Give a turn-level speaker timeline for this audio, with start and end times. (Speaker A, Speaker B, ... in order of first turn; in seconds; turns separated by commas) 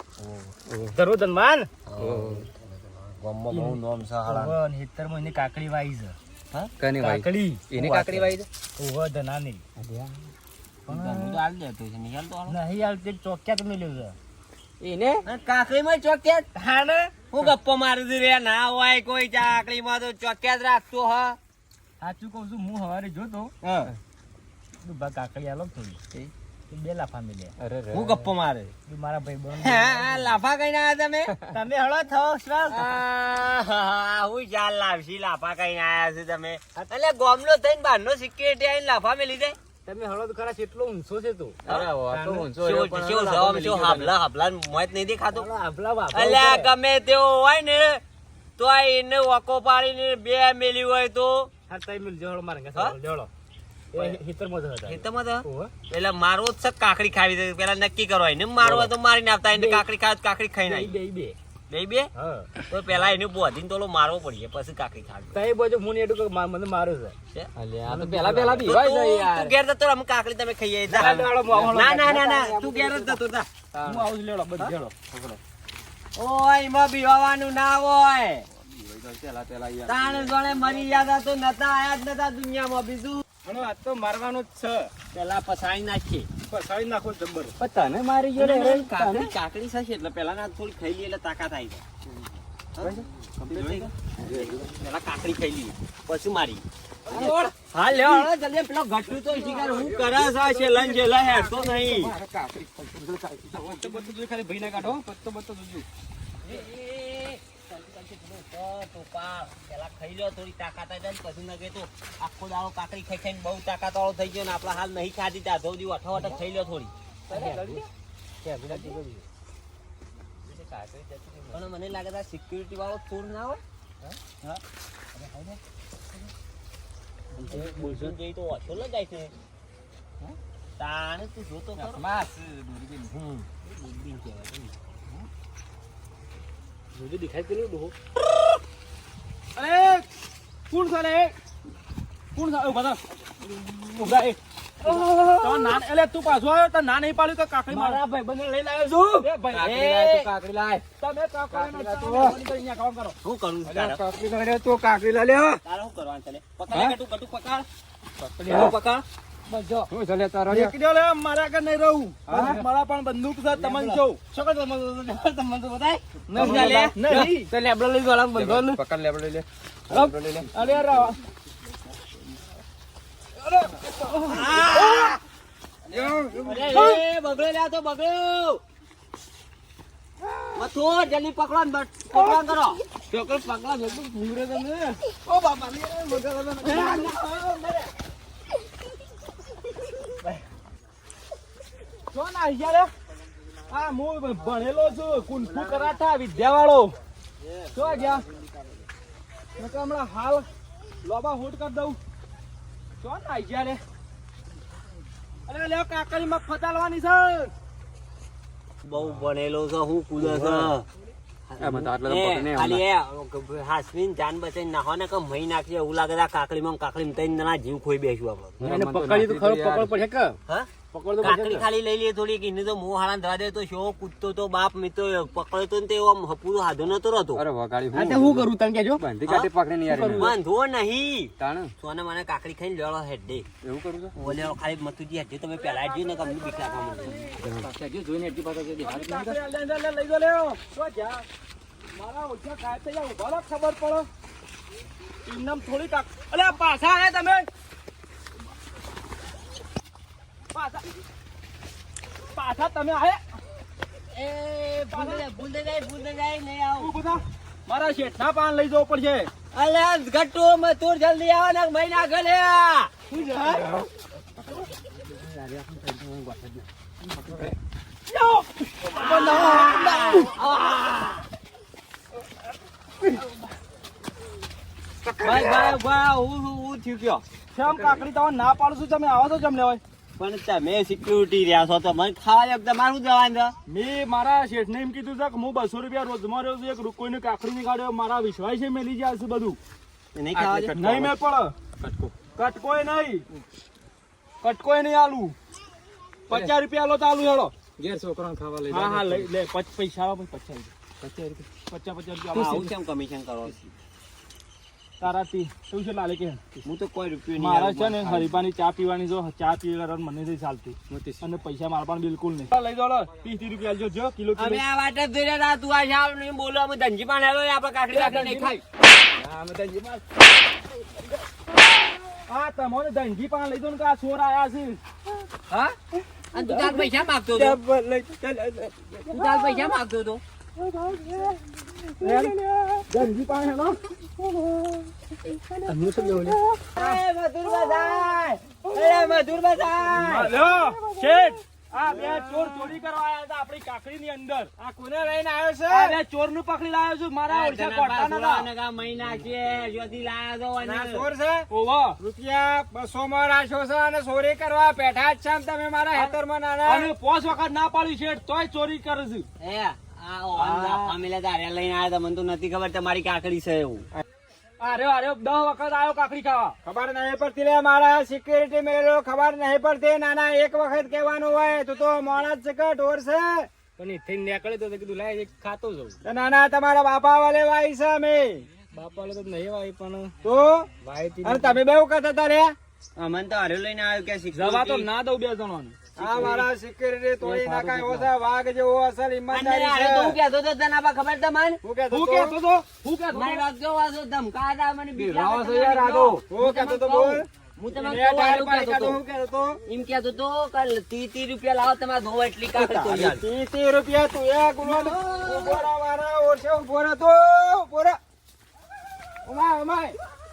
Speaker A: 0.2-0.5, Speaker B: 0.7-0.9, Speaker C: 0.9-1.7, Speaker A: 1.9-4.5, Speaker B: 2.0-2.5, Speaker C: 3.5-6.1, Speaker B: 6.8-8.5, Speaker C: 7.0-9.6, Speaker B: 9.8-10.2, Speaker C: 10.9-11.4, Speaker A: 10.9-12.6, Speaker C: 12.5-14.2, Speaker B: 14.8-15.2, Speaker A: 15.2-16.5, Speaker C: 16.5-17.1, Speaker A: 17.3-21.4, Speaker C: 22.0-23.5, Speaker A: 23.6-23.9, Speaker C: 24.8-26.0, Speaker C: 26.7-27.5, Speaker B: 27.6-28.2, Speaker A: 27.9-28.7, Speaker C: 28.9-30.3, Speaker A: 29.6-31.3, Speaker C: 31.5-32.8, Speaker A: 32.5-39.6, Speaker C: 39.8-41.6, Speaker B: 41.6-44.1, Speaker A: 41.7-41.9, Speaker C: 42.1-42.5, Speaker A: 42.6-45.5, Speaker C: 45.3-46.7, Speaker A: 46.1-48.0, Speaker A: 48.6-51.5, Speaker C: 51.7-53.3, Speaker C: 53.9-55.7, Speaker A: 54.8-61.0, Speaker B: 58.6-58.9, Speaker C: 59.5-59.8, Speaker C: 60.6-61.4, Speaker A: 61.7-62.1, Speaker C: 62.1-62.5, Speaker A: 62.7-65.3, Speaker C: 65.3-67.1, Speaker B: 67.5-69.5, Speaker C: 67.8-68.8, Speaker A: 68.6-73.5, Speaker C: 70.9-73.2, Speaker B: 71.0-71.8, Speaker B: 72.5-72.9, Speaker C: 73.8-74.8, Speaker D: 73.8-74.9, Speaker A: 76.2-78.5, Speaker B: 78.7-81.0, Speaker A: 79.8-83.2, Speaker C: 83.4-84.9, Speaker A: 85.1-86.3, Speaker D: 86.5-87.5, Speaker C: 87.4-89.3, Speaker A: 88.4-91.8, Speaker A: 92.8-102.1, Speaker B: 93.5-93.8, Speaker C: 97.1-97.3, Speaker C: 98.0-98.2, Speaker C: 99.4-100.9, Speaker B: 99.6-100.0, Speaker B: 101.5-104.1, Speaker C: 102.0-102.6, Speaker C: 103.4-105.0, Speaker B: 104.8-105.8, Speaker A: 106.4-117.4, Speaker C: 116.1-116.4, Speaker C: 117.3-117.9, Speaker B: 117.4-117.8, Speaker C: 118.4-119.2, Speaker B: 120.5-121.7, Speaker A: 121.5-123.6, Speaker C: 125.1-125.6, Speaker C: 127.4-128.1, Speaker A: 127.5-129.3, Speaker A: 130.8-132.1, Speaker A: 133.0-133.5, Speaker C: 133.6-134.7, Speaker C: 136.9-137.9, Speaker D: 139.6-140.1, Speaker D: 140.7-141.3, Speaker D: 142.3-143.0, Speaker D: 143.9-148.0, Speaker C: 144.8-145.7, Speaker C: 147.7-149.3, Speaker D: 149.2-149.7, Speaker B: 149.5-150.8, Speaker A: 149.6-150.3, Speaker D: 151.0-153.2, Speaker B: 151.5-152.2, Speaker A: 153.2-154.0, Speaker B: 153.7-155.6, Speaker C: 154.6-155.3, Speaker A: 155.6-157.7, Speaker B: 158.2-158.7, Speaker C: 158.4-158.7, Speaker A: 158.5-159.0, Speaker C: 159.5-159.9, Speaker B: 159.9-160.7, Speaker D: 160.5-164.2, Speaker C: 162.3-162.6, Speaker C: 163.5-168.8, Speaker D: 166.3-167.5, Speaker B: 166.3-166.8, Speaker A: 166.5-166.9, Speaker B: 168.3-170.5, Speaker C: 169.9-170.2, Speaker D: 170.5-171.2, Speaker D: 173.6-174.6, Speaker C: 174.0-175.1, Speaker A: 174.2-175.2, Speaker E: 175.9-176.8, Speaker A: 176.0-178.6, Speaker D: 176.7-177.0, Speaker A: 180.5-183.6, Speaker C: 183.1-187.1, Speaker A: 185.3-187.8, Speaker D: 192.1-192.9, Speaker D: 193.7-196.9, Speaker A: 195.5-195.9, Speaker A: 197.4-198.4, Speaker D: 197.7-198.2, Speaker D: 199.6-200.5, Speaker D: 201.0-202.0, Speaker D: 203.0-203.8, Speaker D: 205.5-207.5, Speaker A: 208.8-210.8, Speaker B: 209.0-209.3, Speaker B: 210.2-210.7, Speaker A: 211.5-218.6, Speaker B: 211.6-212.8, Speaker B: 218.6-219.9, Speaker C: 218.6-220.4, Speaker C: 220.9-221.7, Speaker A: 221.2-227.4, Speaker B: 227.3-230.3, Speaker C: 227.9-229.0, Speaker A: 229.2-229.5, Speaker C: 229.9-230.3, Speaker A: 230.1-233.4, Speaker B: 231.4-231.7, Speaker B: 233.6-234.4, Speaker A: 234.2-237.4, Speaker D: 235.6-237.4, Speaker B: 237.4-239.2, Speaker C: 237.8-239.1, Speaker D: 238.8-241.2, Speaker D: 241.9-244.1, Speaker D: 245.2-247.5, Speaker D: 250.5-250.9, Speaker D: 252.3-253.2, Speaker A: 254.1-256.9, Speaker D: 254.9-255.3, Speaker D: 256.8-259.3, Speaker A: 259.5-262.9, Speaker C: 263.2-263.8, Speaker C: 264.9-266.6, Speaker D: 268.1-270.3, Speaker A: 268.9-271.2, Speaker A: 275.2-277.2, Speaker D: 277.5-279.8, Speaker A: 280.2-283.6, Speaker D: 283.7-289.6, Speaker A: 290.1-291.1, Speaker B: 290.3-290.7, Speaker D: 290.8-291.5, Speaker B: 291.8-292.1, Speaker D: 292.3-293.2, Speaker D: 294.4-295.3, Speaker D: 296.3-297.5, Speaker B: 297.8-299.3, Speaker D: 298.7-300.7, Speaker B: 301.0-301.4, Speaker D: 301.7-302.7, Speaker A: 302.3-303.7, Speaker D: 305.0-306.4, Speaker A: 306.6-308.3, Speaker D: 307.4-314.6, Speaker B: 310.9-311.2, Speaker A: 314.4-318.6, Speaker D: 317.9-318.5, Speaker C: 319.2-320.0, Speaker D: 322.3-324.8, Speaker A: 325.5-325.7, Speaker A: 326.3-327.6, Speaker C: 327.8-328.9, Speaker A: 329.1-330.2, Speaker D: 332.0-332.4, Speaker D: 332.9-333.8, Speaker C: 335.7-336.4, Speaker A: 336.8-340.3, Speaker D: 339.9-344.5, Speaker E: 341.9-342.7, Speaker E: 344.6-346.0, Speaker D: 345.7-348.5, Speaker A: 347.3-351.1, Speaker E: 350.6-351.5, Speaker D: 351.5-352.0, Speaker E: 352.0-356.9, Speaker D: 355.9-359.3, Speaker A: 359.4-363.9, Speaker E: 360.4-360.9, Speaker D: 364.6-366.5, Speaker E: 366.6-373.5, Speaker C: 373.8-376.0, Speaker E: 376.0-378.4, Speaker C: 378.7-380.1, Speaker E: 380.2-380.7, Speaker C: 380.8-381.6, Speaker E: 381.2-382.5, Speaker A: 382.9-384.9, Speaker D: 384.3-386.4, Speaker E: 386.0-390.2, Speaker C: 387.2-388.0, Speaker A: 389.3-391.6, Speaker E: 391.6-392.4, Speaker D: 391.9-393.4, Speaker A: 393.1-399.0, Speaker B: 395.0-396.2, Speaker E: 396.3-399.6, Speaker A: 399.6-403.2, Speaker E: 402.5-408.0, Speaker A: 404.6-405.7, Speaker E: 409.2-409.9